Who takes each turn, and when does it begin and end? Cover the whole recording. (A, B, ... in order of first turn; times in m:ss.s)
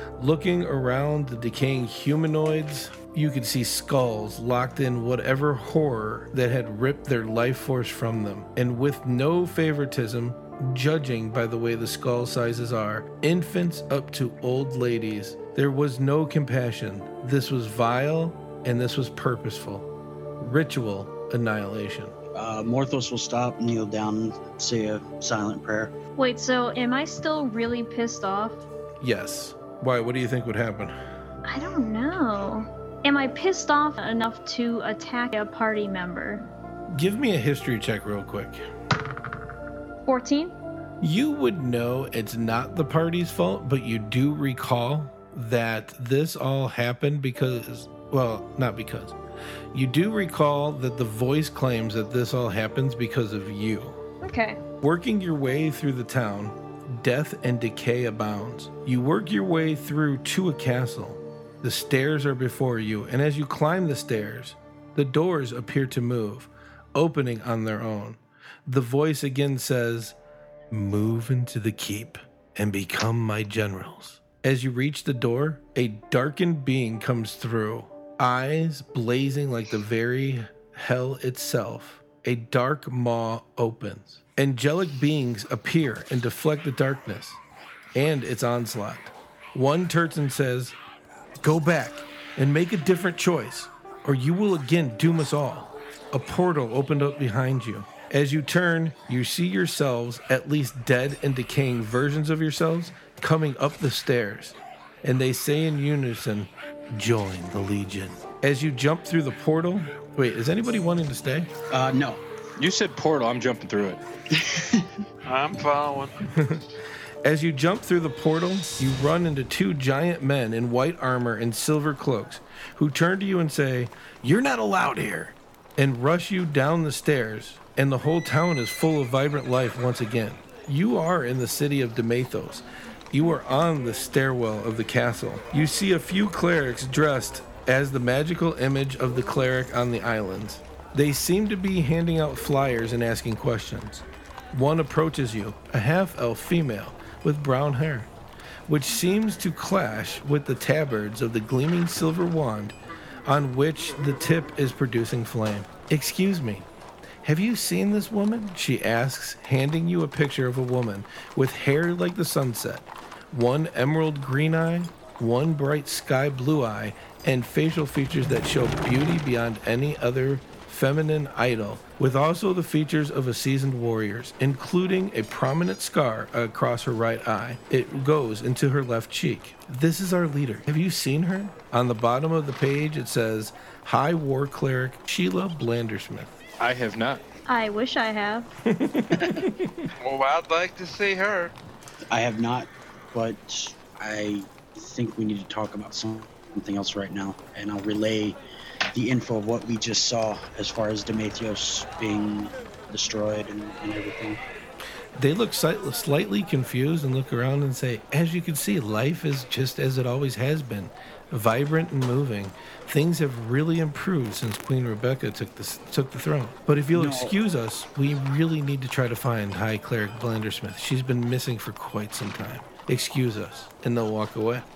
0:00.2-0:19.9 A
0:20.4-0:22.1 A
0:22.3-0:25.9 B
0:26.2-0:28.6 C
0:29.0-0:30.9 A
0:31.5-0:36.5 C
0:36.9-0:38.6 A
0:40.0-0:40.5 C
0:41.0-0:49.2 A
0:49.7-0:54.0 A
0:54.2-0:54.6 C
0:54.8-1:10.2 A
1:10.7-1:27.4 A
1:27.9-1:30.8 A
1:31.4-1:51.5 A
1:51.7-1:52.2 B
1:52.6-1:54.0 D
1:54.4-1:54.9 B
1:55.2-1:56.1 E
1:56.3-1:56.6 A
1:57.2-2:28.1 A
2:28.7-2:32.7 A
2:33.2-2:36.6 A
2:37.2-3:06.4 A
3:06.6-3:07.2 D
3:07.5-3:08.5 C
3:08.7-3:09.8 A
3:09.1-3:09.4 B
3:10.0-3:11.5 E
3:12.1-3:18.4 B
3:18.9-3:24.4 B
3:25.2-3:44.6 A
3:36.9-3:37.3 B